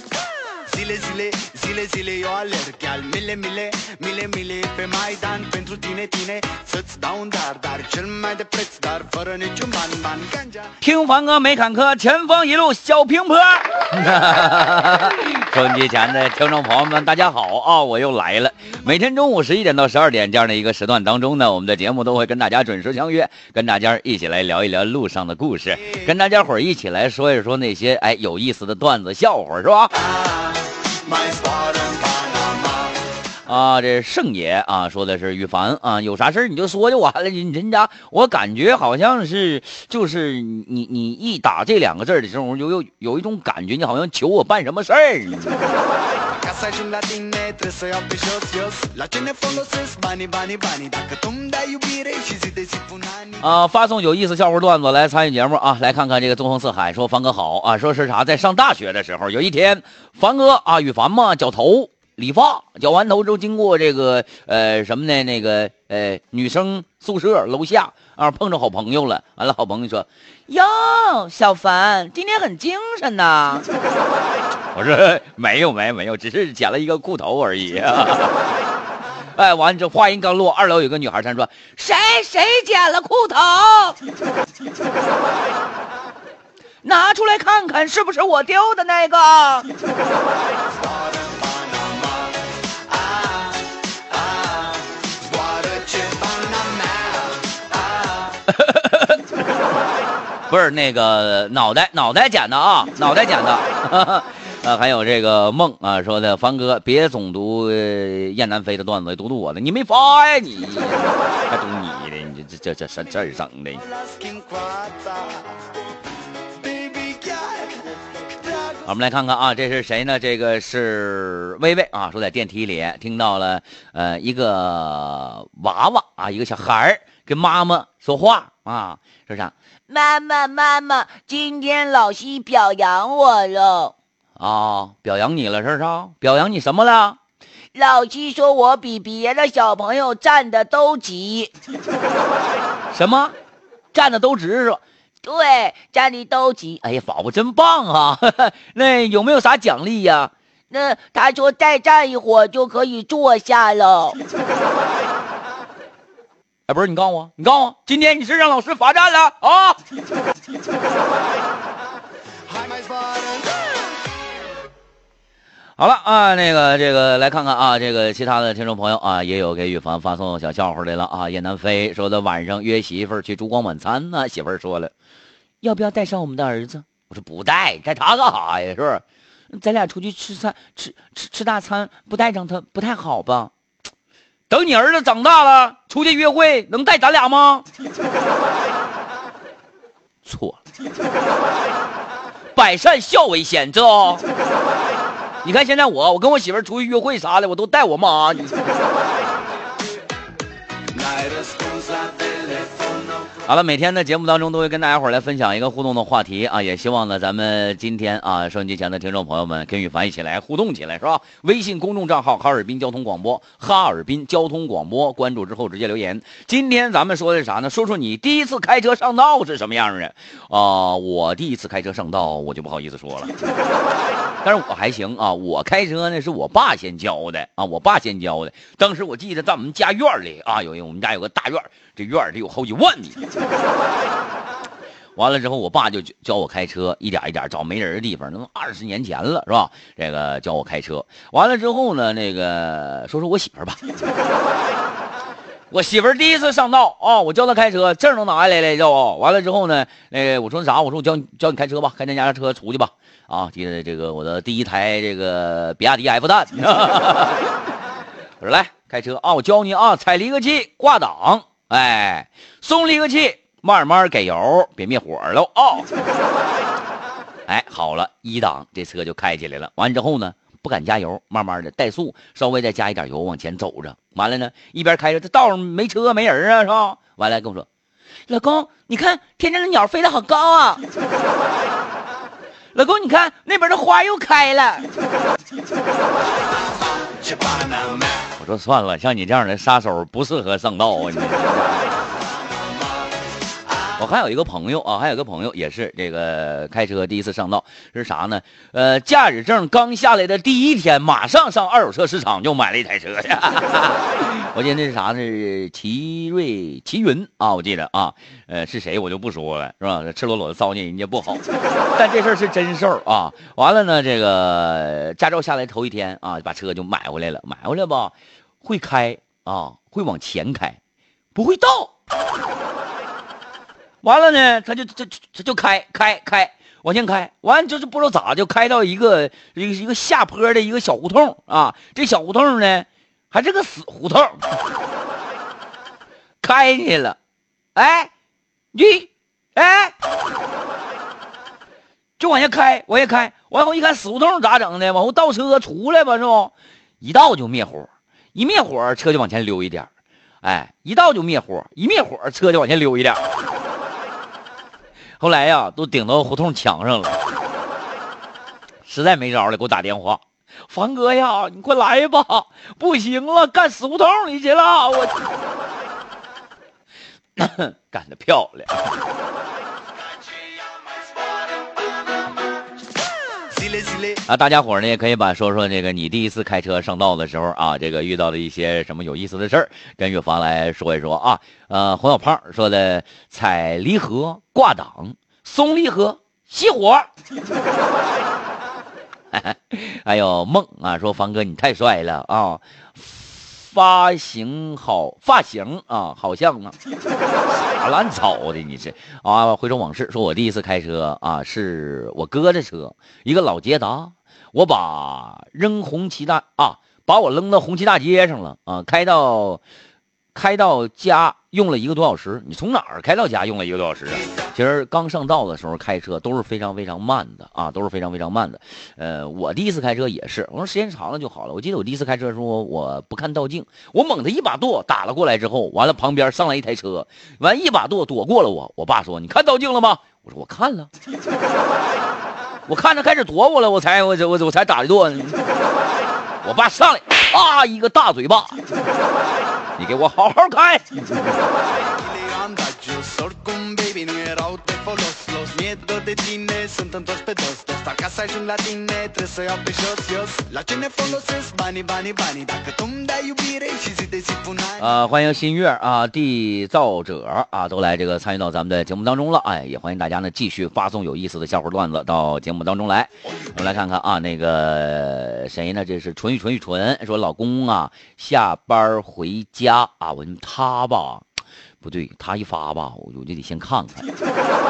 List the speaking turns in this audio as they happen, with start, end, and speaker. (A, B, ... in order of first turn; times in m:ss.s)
0:00.7-0:10.7 A
0:10.8-0:29.9 B
0:31.0-0:32.9 A
0:33.5-0:45.8 B
0:46.3-0:53.4 A
0:53.4-1:13.7 B
1:14.7-1:18.5 B
1:19.4-1:24.0 B
1:26.8-1:29.7 B
1:30.8-1:32.3 A
1:34.1-1:37.6 A
1:38.5-1:39.2 B
1:40.5-1:53.8 B
1:53.9-1:55.7 A
1:56.6-1:58.8 A
1:58.8-2:17.2 B
2:17.7-2:21.5 B
2:22.9-2:23.4 B
2:23.9-2:34.2 B
2:36.7-2:39.8 B
2:42.5-2:44.0 A
2:45.8-2:54.9 B
2:55.6-3:03.5 B
3:04.5-3:07.7 B
3:10.2-3:10.6 B
3:12.6-3:14.2 B
3:15.4-3:18.7 B
3:20.9-3:23.1 A
3:23.4-3:43.3 B
3:44.4-3:53.2 B
3:55.2-4:03.8 B
4:05.7-4:17.5 B
4:18.4-4:25.9 B
4:27.5-4:37.7 B
4:38.3-4:40.8 B
4:42.8-4:44.9 B
4:47.1-4:48.1 A
4:48.4-4:52.1 B
4:54.0-5:11.4 B
5:12.0-5:20.8 B
5:21.4-5:21.9 B
5:24.0-5:34.4 B
5:36.4-5:37.2 B
5:37.8-5:38.1 B
5:38.7-5:39.9 B
5:42.2-5:49.9 B
5:50.4-5:53.2 B
5:55.2-5:57.2 B
5:58.9-6:05.2 B
6:07.4-6:08.9 B
6:13.5-6:14.2 A
6:14.3-6:27.1 B
6:29.3-6:36.8 B
6:37.5-6:49.6 B
6:50.3-7:10.9 B
7:12.7-7:15.4 B
7:16.4-7:18.6 B
7:19.8-7:21.4 B
7:21.8-7:34.8 A
7:34.8-7:51.2 B
7:51.8-7:54.1 B